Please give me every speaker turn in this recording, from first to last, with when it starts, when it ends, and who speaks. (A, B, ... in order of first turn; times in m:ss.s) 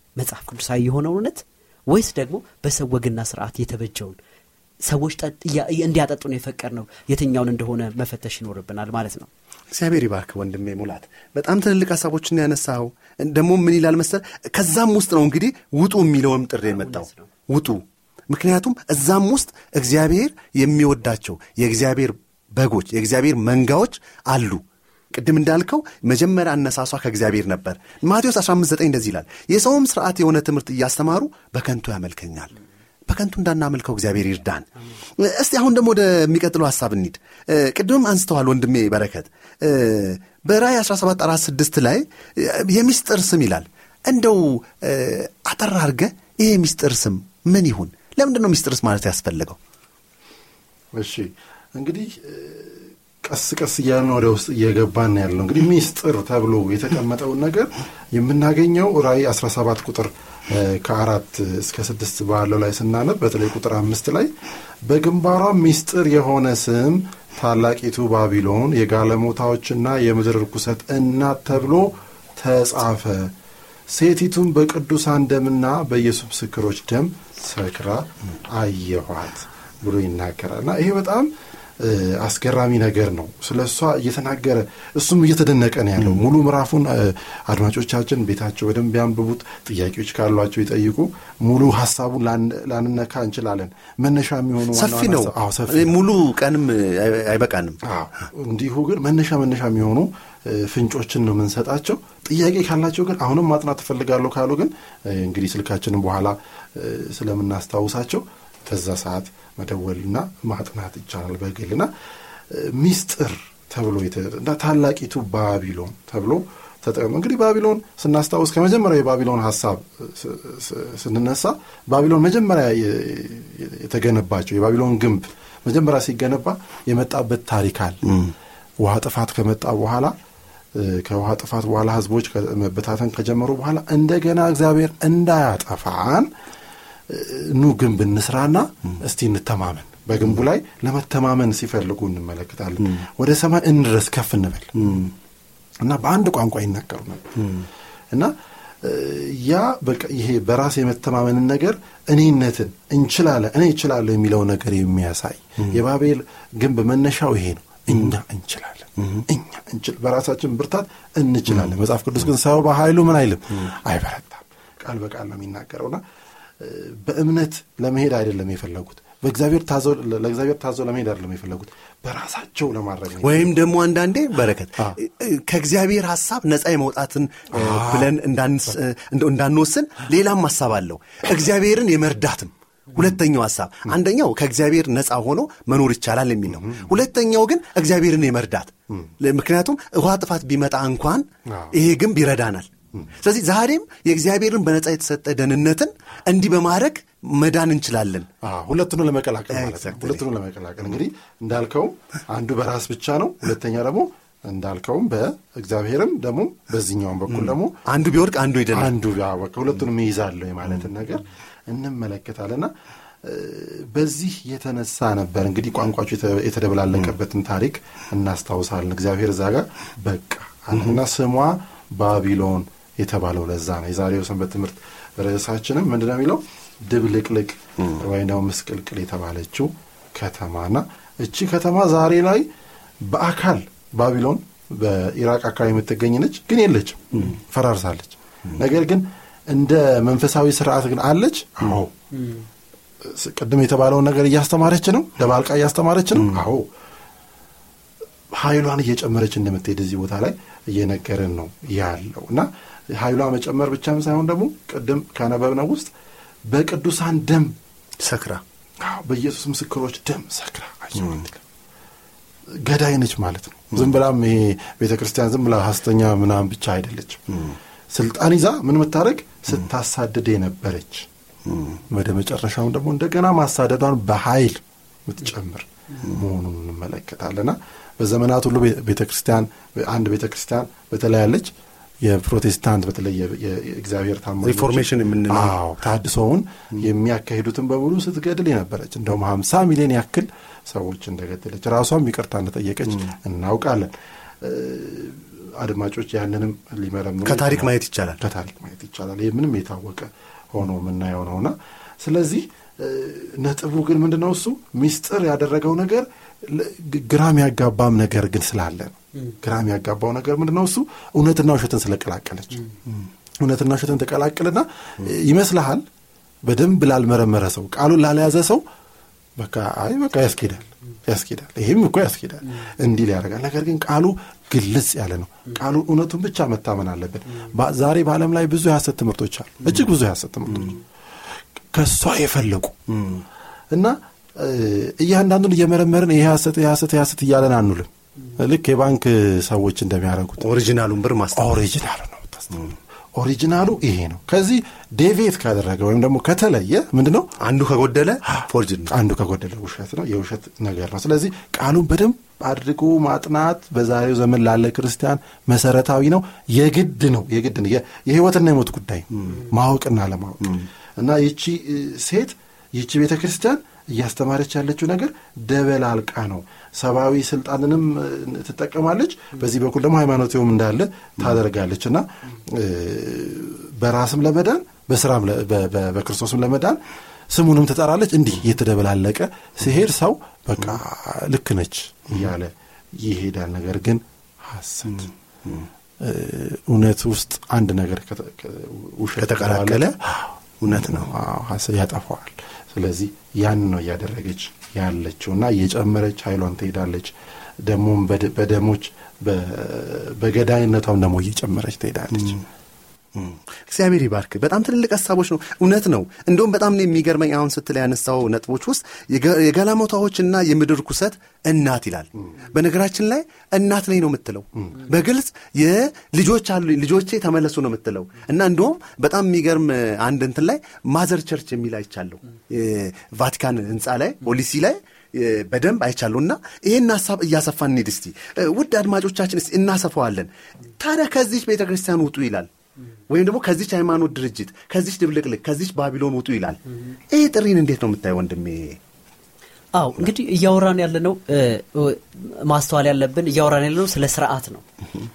0:00.2-0:04.2 A
0:04.8-0:09.3 A
0:09.7-0:24.6 B
0:16.7-0:17.3 A
0:25.1-0:32.5 B
0:33.1-0:49.6 B
0:50.9-1:04.3 C
1:04.8-1:13.3 C
1:13.9-1:36.0 C
1:34.7-1:37.8 B
1:37.8-1:51.9 C
1:52.5-2:08.0 C
2:08.1-2:08.3 B
2:08.8-2:10.1 C
2:10.7-2:16.3 C
2:17.1-2:25.0 C
2:24.8-2:25.1 B
2:25.8-2:27.4 C
2:27.4-2:27.7 B
2:28.1-2:46.0 C
2:46.6-2:53.5 C
2:53.2-3:12.7 B
2:57.5-2:58.1 C
3:06.5-3:06.9 C
3:11.5-3:11.8 C
3:13.2-3:18.3 B
3:18.4-3:27.8 C
3:19.5-3:20.2 B
3:27.3-3:28.9 B
3:28.7-3:32.7 C
3:33.2-3:52.5 C
3:53.0-4:01.9 C
4:03.0-4:06.6 C
4:08.3-4:15.9 C
4:16.5-4:17.5 C
4:18.0-4:18.4 B
4:18.8-4:21.4 C
4:22.6-4:27.2 C
4:27.3-4:27.6 B
4:27.9-4:31.1 C
4:31.4-4:31.8 B
4:31.9-4:41.5 C
4:42.0-5:12.6 C
4:44.4-4:45.5 B
4:57.2-4:58.2 B
5:13.4-5:15.8 C
5:16.4-5:18.6 C
5:19.4-5:30.8 C
5:31.7-5:32.7 C
5:32.9-5:33.2 B
5:33.7-5:40.4 C
5:40.4-5:41.5 B
5:41.3-5:47.3 C
5:47.4-5:48.9 B
5:48.9-6:25.1 C
6:26.0-6:37.1 C
6:29.2-6:29.9 B
6:30.6-6:31.1 B
6:37.6-6:42.4 C
6:43.1-7:12.5 B
7:13.1-7:18.8 B
7:19.7-7:24.6 A